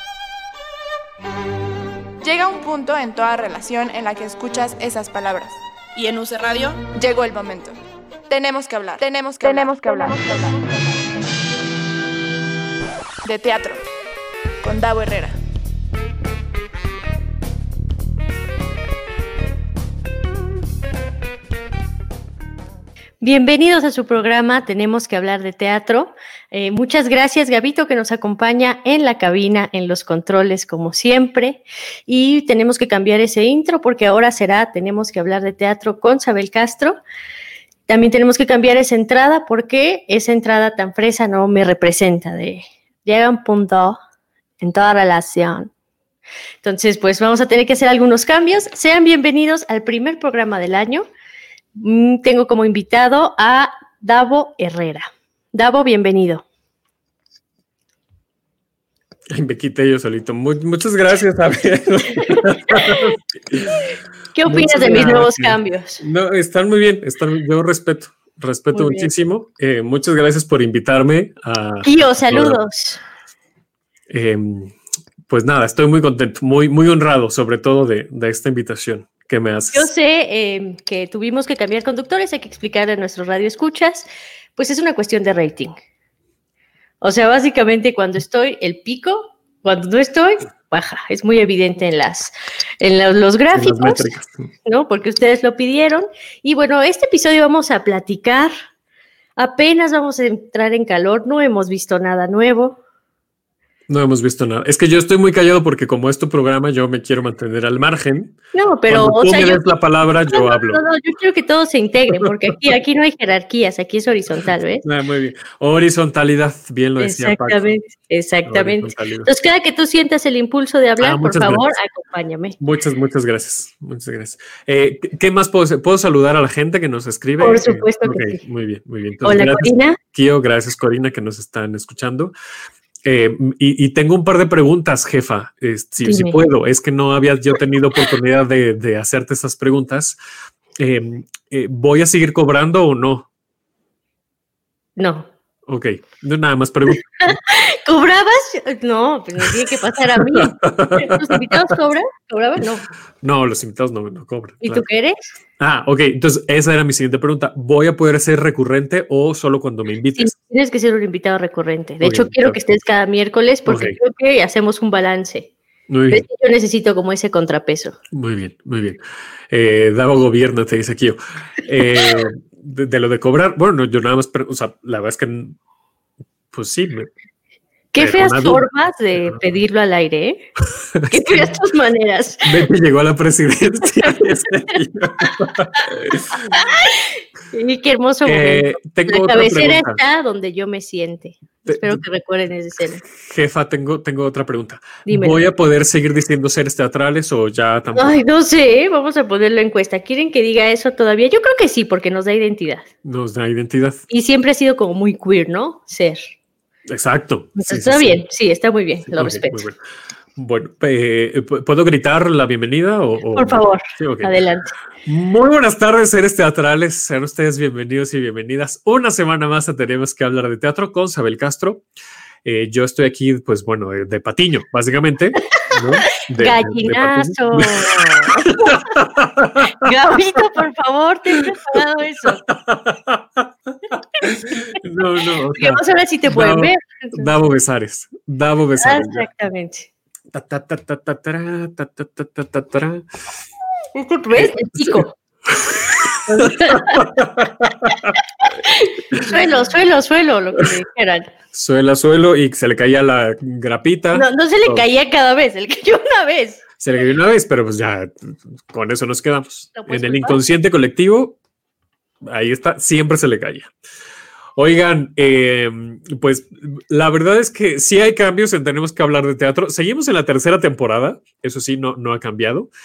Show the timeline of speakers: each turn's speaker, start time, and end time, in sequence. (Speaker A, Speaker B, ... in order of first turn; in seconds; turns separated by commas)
Speaker A: 2.2-7.8, Speaker A: 8.3-10.6, Speaker A: 13.2-13.8, Speaker A: 14.6-15.3, Speaker B: 23.2-37.0, Speaker B: 37.9-44.0, Speaker B: 44.6-45.7, Speaker B: 46.6-51.0, Speaker B: 51.8-56.4, Speaker C: 59.3-63.7, Speaker B: 62.1-63.1, Speaker B: 64.3-66.0, Speaker C: 64.4-72.6, Speaker B: 68.7-69.1, Speaker B: 71.8-73.0, Speaker C: 74.1-74.8, Speaker C: 75.3-79.9, Speaker B: 79.7-85.8, Speaker B: 87.0-94.1, Speaker C: 93.5-94.5, Speaker B: 94.7-98.5, Speaker B: 99.4-102.8, Speaker C: 103.9-108.3, Speaker B: 108.5-109.8, Speaker C: 108.9-110.8, Speaker B: 110.3-114.8, Speaker C: 114.8-117.7, Speaker B: 117.0-122.6, Speaker C: 118.5-119.3, Speaker C: 121.0-121.7, Speaker C: 122.6-132.3, Speaker B: 127.4-128.4, Speaker B: 129.2-130.0, Speaker C: 133.0-140.2, Speaker B: 136.0-136.4, Speaker C: 140.8-143.3, Speaker B: 145.0-145.3, Speaker C: 145.7-147.4, Speaker B: 147.2-152.8, Speaker C: 149.4-151.8, Speaker C: 153.2-154.8, Speaker B: 154.6-155.2, Speaker C: 155.6-160.3, Speaker B: 160.2-165.5, Speaker C: 162.0-162.6, Speaker C: 163.7-164.0, Speaker C: 165.9-166.2, Speaker B: 166.1-168.0, Speaker C: 168.1-169.0, Speaker C: 169.5-175.6, Speaker B: 171.8-172.2, Speaker C: 176.5-177.1, Speaker B: 177.9-180.4, Speaker C: 178.0-178.7, Speaker C: 180.9-181.5, Speaker B: 181.1-182.5, Speaker C: 182.4-186.5, Speaker B: 186.5-193.0, Speaker C: 188.2-190.0, Speaker C: 191.6-192.0, Speaker C: 193.1-198.2, Speaker B: 195.0-195.4, Speaker B: 197.9-202.8, Speaker C: 203.0-204.0, Speaker B: 204.1-206.3, Speaker C: 206.9-208.2, Speaker B: 207.6-209.7, Speaker C: 209.1-209.8, Speaker C: 210.3-214.3, Speaker B: 213.3-214.7, Speaker C: 215.0-221.8, Speaker C: 222.4-229.9, Speaker B: 226.2-228.9, Speaker B: 229.6-232.4, Speaker C: 232.5-233.5, Speaker C: 234.2-239.3, Speaker B: 235.5-237.3, Speaker B: 238.8-239.9, Speaker C: 240.3-243.1, Speaker B: 243.9-245.2, Speaker C: 244.3-248.2, Speaker B: 246.3-247.1, Speaker B: 248.4-251.3, Speaker C: 249.1-249.4, Speaker C: 251.5-254.8, Speaker B: 254.1-256.6, Speaker C: 256.8-261.4, Speaker B: 259.7-260.4, Speaker C: 262.2-263.7, Speaker C: 264.6-272.7